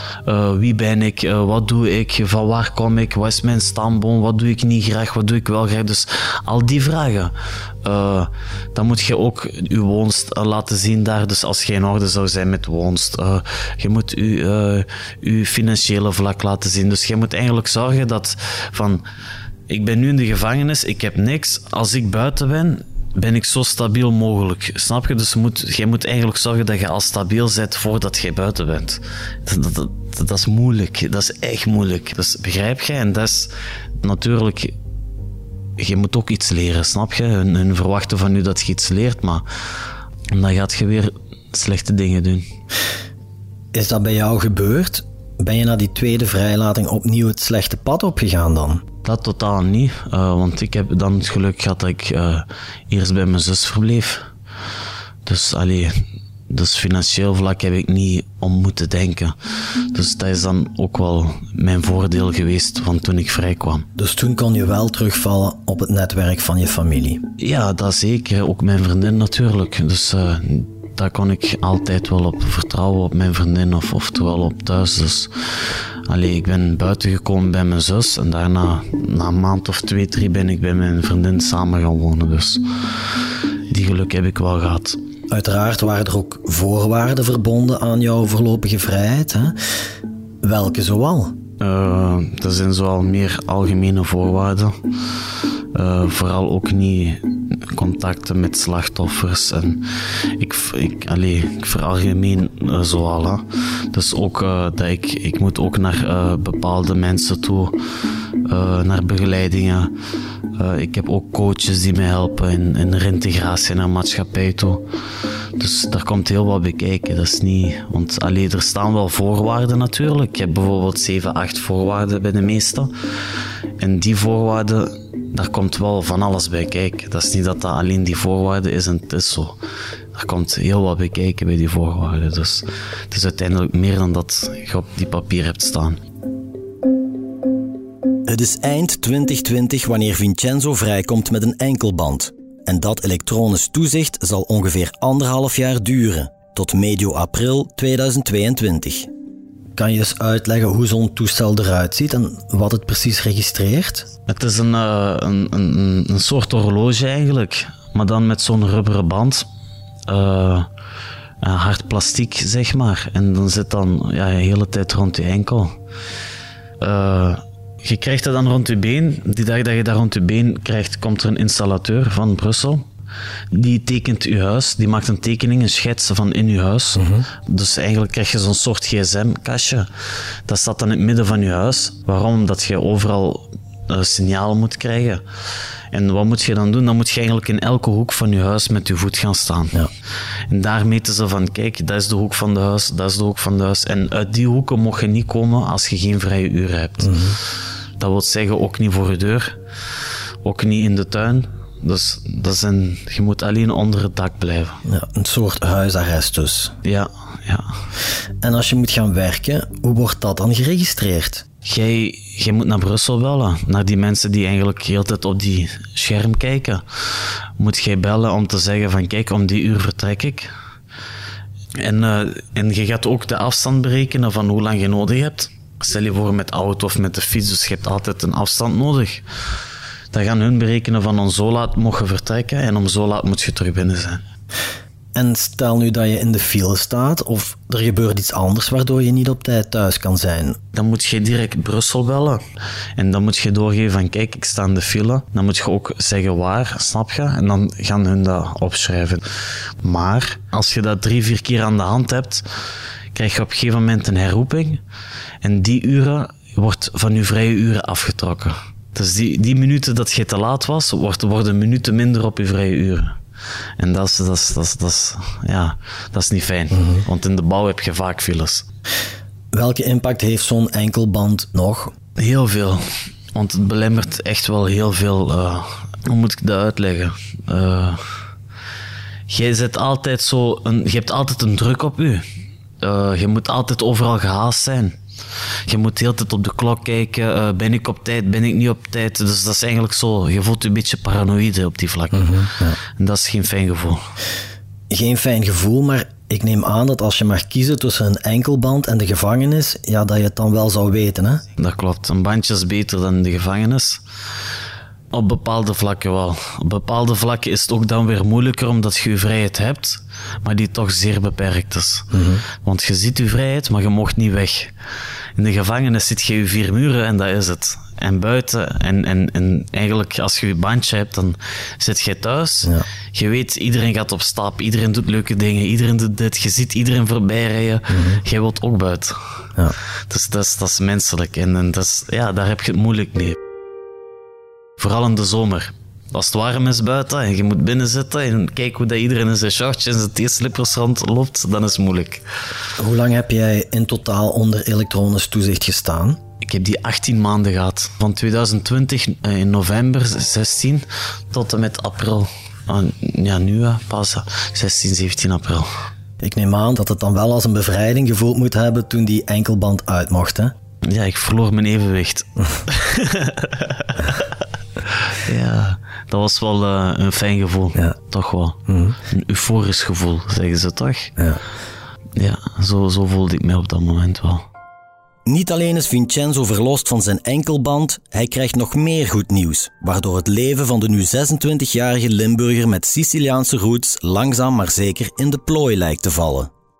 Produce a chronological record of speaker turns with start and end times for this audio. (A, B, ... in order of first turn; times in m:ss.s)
0:00.2-0:19.0 A
0:19.7-0:34.7 A
0:35.8-0:39.4 A
0:40.3-0:42.5 A
0:43.7-0:48.8 B
0:49.0-0:54.3 A
0:55.2-0:56.0 A
0:56.5-0:59.3 A
0:59.9-1:03.8 A
1:03.9-1:07.2 B
1:07.4-1:23.1 A
1:23.7-1:25.0 A
1:25.3-1:29.5 B
1:30.4-1:31.4 B
1:31.6-1:34.8 A
1:35.7-1:47.7 A
1:48.4-1:49.9 A
1:50.6-1:54.8 A
1:55.6-2:02.9 A
2:03.8-2:09.6 A
2:10.1-2:16.0 A
2:18.2-2:29.1 B
2:29.8-2:34.1 B
2:34.2-2:39.4 A
2:40.1-2:40.7 A
2:41.4-2:45.7 A
2:46.8-2:52.8 A
2:53.5-2:59.9 A
2:57.0-2:57.3 B
3:00.5-3:05.2 A
3:05.9-3:09.8 A
3:10.5-3:17.4 A
3:17.0-3:17.4 B
3:18.0-3:19.6 A
3:20.4-3:24.8 A
3:24.8-3:26.7 B
3:26.8-3:27.7 A
3:28.4-3:31.4 B
3:31.6-3:36.8 A
3:37.6-3:40.5 A
3:41.8-3:49.2 A
3:50.1-3:54.2 A
3:55.1-4:00.6 B
4:00.7-4:02.4 A
4:03.0-4:09.3 A
4:09.8-4:12.4 A
4:13.1-4:14.8 A
4:15.4-4:23.2 A
4:23.8-4:28.6 A
4:26.7-4:27.0 B
4:29.5-4:31.9 B
4:32.2-4:38.2 A
4:39.3-4:42.2 A
4:42.8-4:45.0 A
4:45.6-4:54.0 A
4:52.1-4:52.8 B
4:54.9-5:01.4 B
5:01.6-5:04.0 A
5:05.1-5:12.1 A
5:12.1-5:12.4 B
5:12.6-5:14.7 A
5:15.4-5:29.5 A
5:27.9-5:28.2 B
5:30.1-5:33.4 A
5:34.8-5:42.2 A
5:42.8-5:46.2 B
5:46.4-5:55.7 A
5:56.2-6:00.5 B
6:00.8-6:08.6 A
6:08.7-6:09.0 B
6:09.1-6:11.1 A
6:12.2-6:14.4 A
6:15.2-6:26.5 B